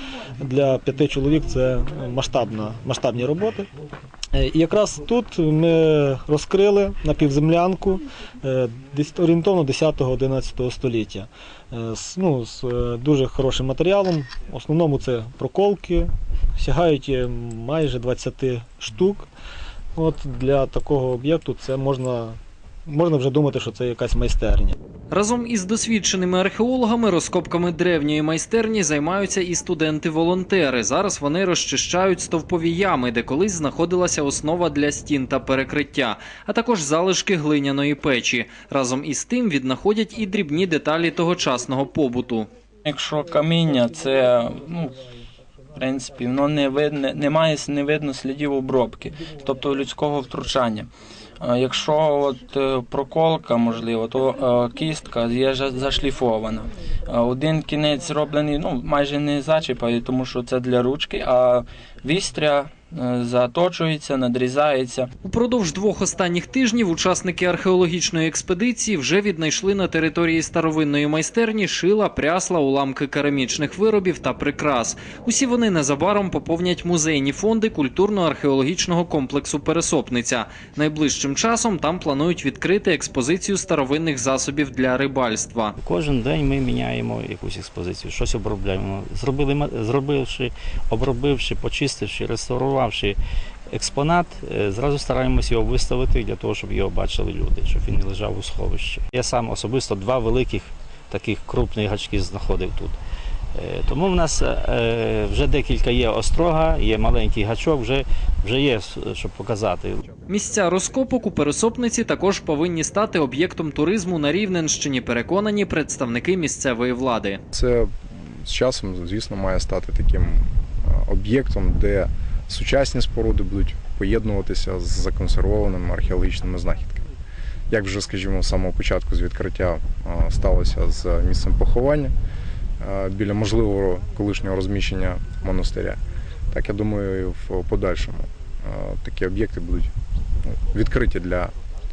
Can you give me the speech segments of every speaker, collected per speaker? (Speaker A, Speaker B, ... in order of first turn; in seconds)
Speaker A: 0.4-3.7, 4.3-19.3, 20.0-24.8
Speaker B: 25.1-42.5, 65.2-85.8, 110.3-117.4
Speaker C: 42.9-45.0, 45.7-65.1
Speaker D: 85.8-93.2, 93.7-103.0, 103.5-110.0
Speaker E: 117.5-117.9, 118.4-127.0, 127.7-132.1, 132.8-136.0, 136.5-139.9, 140.5-141.5